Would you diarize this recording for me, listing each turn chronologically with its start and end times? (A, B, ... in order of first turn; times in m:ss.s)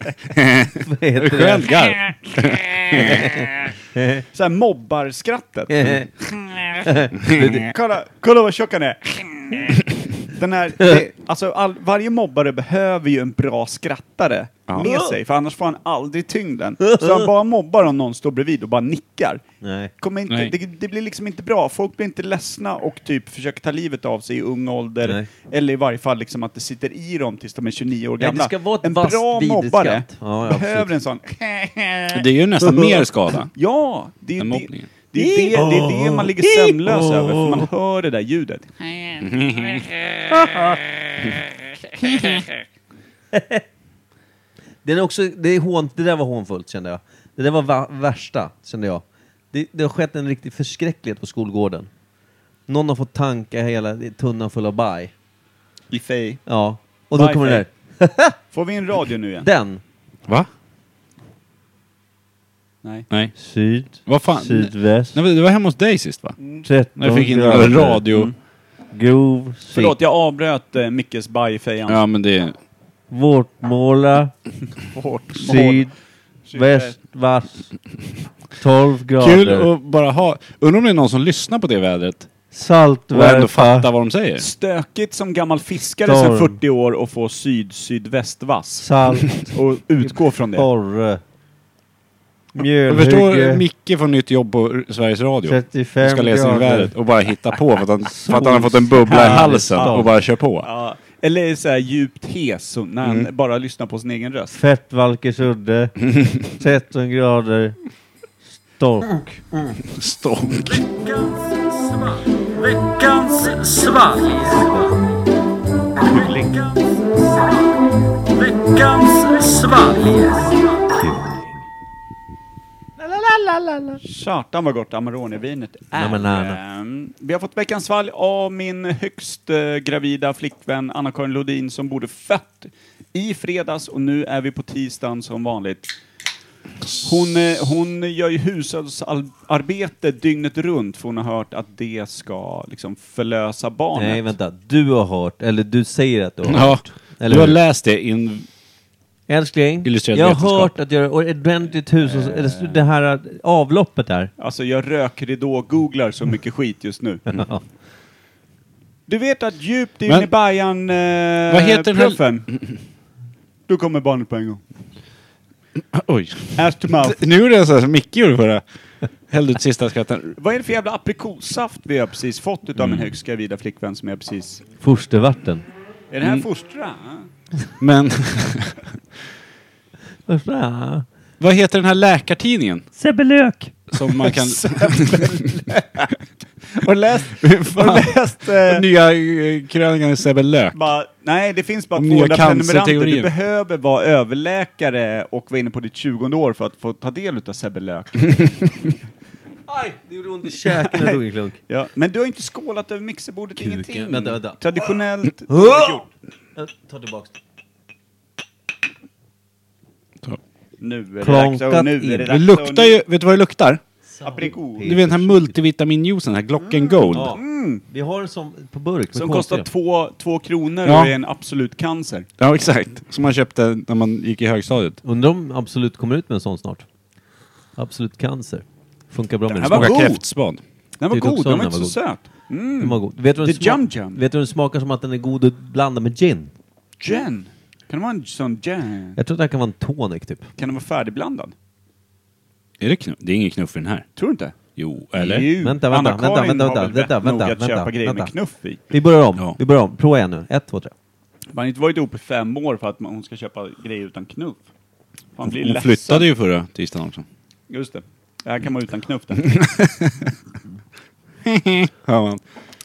0:00.3-0:03.3 A
0:00.8-0:01.7 B
0:02.9-0:04.2 B
0:04.3-0:06.8 C
0:05.7-0:06.1 B
0:06.8-0:07.7 B
0:07.6-0:19.4 C
0:14.8-0:15.2 B
0:16.8-0:17.2 B
0:19.6-0:19.9 B
0:20.0-0:39.2 C
0:20.3-0:20.5 A
0:25.0-0:25.3 B
0:28.2-0:30.9 B
0:32.1-0:33.5 A
0:34.4-0:34.9 A
0:35.1-0:37.7 B
0:39.2-0:39.9 A
0:40.3-0:40.8 B
0:43.3-0:43.6 B
0:44.8-0:51.9 B
0:52.7-0:55.1 B
0:55.9-0:56.4 C
0:56.4-0:58.4 B
0:57.1-0:57.6 C
0:58.5-0:59.5 C
0:59.4-0:59.8 B
1:03.4-1:05.2 B
1:04.0-1:06.4 A
1:06.6-1:08.0 B
1:07.0-1:08.3 A
1:08.9-1:10.0 B
1:09.7-1:12.0 C
1:11.9-1:12.6 A
1:13.1-1:14.3 B
1:14.8-1:15.9 C
1:15.3-1:15.9 B
1:16.5-1:16.9 C
1:16.5-1:17.7 B
1:18.6-1:19.7 B
1:19.2-1:22.3 A
1:22.5-1:23.9 B
1:23.1-1:24.4 A
1:24.4-1:30.7 C
1:26.0-1:26.6 B
1:28.8-1:29.5 B
1:30.5-1:31.2 B
1:32.5-1:33.6 B
1:32.9-1:40.7 A
1:35.4-1:36.9 B
1:38.0-1:40.1 B
1:39.1-1:44.6 C
1:44.5-1:47.8 B
1:48.8-1:49.8 B
1:49.9-1:50.8 A
1:50.5-1:54.7 C
1:54.3-1:54.9 B
1:56.0-1:57.6 C
1:58.2-2:00.5 C
1:59.9-2:01.5 B
2:03.0-2:04.0 B
2:04.0-2:15.9 C
2:05.9-2:06.6 B
2:16.9-2:24.3 C
2:23.9-2:27.6 B
2:26.5-2:28.5 A
2:29.3-2:34.3 B
2:29.8-2:30.7 A
2:32.0-2:32.8 C
2:34.4-2:37.3 C
2:37.3-2:37.6 B
2:39.1-2:42.5 C
2:41.5-2:42.8 A
2:43.7-2:44.6 C
2:45.9-2:48.6 A
2:46.5-2:47.2 C
2:49.3-2:50.4 A
2:50.4-2:54.6 C
2:52.8-2:53.1 A
2:54.8-2:55.6 B
2:56.1-2:57.3 C
2:57.8-2:58.9 A
3:00.3-3:01.0 B
3:01.4-3:02.9 A
3:03.0-3:03.7 B
3:03.9-3:05.5 A
3:04.2-3:06.2 C
3:06.7-3:08.8 C
3:07.4-3:10.8 A
3:10.7-3:18.8 C
3:12.0-3:13.3 A
3:19.7-3:21.6 B
3:20.6-3:26.1 C
3:23.6-3:24.6 B
3:25.5-3:26.0 B
3:26.6-3:27.3 B
3:30.8-3:33.0 C
3:31.2-3:32.3 B
3:32.3-3:33.8 A
3:34.1-3:35.5 B
3:34.2-3:35.0 C
3:34.8-3:37.4 A
3:36.7-3:37.8 C
3:37.1-3:39.7 B
3:39.1-3:42.3 C
3:40.8-3:41.2 A
3:42.4-3:45.0 A
3:45.0-3:46.8 B
3:47.8-3:50.0 B
3:49.5-3:50.2 C
3:49.6-3:50.6 A
3:51.0-3:54.2 C
3:51.1-3:52.0 B
3:52.8-3:56.5 B
3:57.0-3:59.2 C
3:59.2-4:00.5 B
4:00.6-4:01.5 C
4:02.8-4:04.0 A
4:04.2-4:04.6 C
4:04.8-4:05.5 A
4:05.1-4:08.8 C
4:05.6-4:08.3 B
4:08.9-4:10.9 B
4:11.5-4:14.6 C
4:15.4-4:16.3 C
4:15.4-4:17.2 A
4:17.7-4:19.6 C
4:19.5-4:20.2 A
4:21.4-4:22.4 A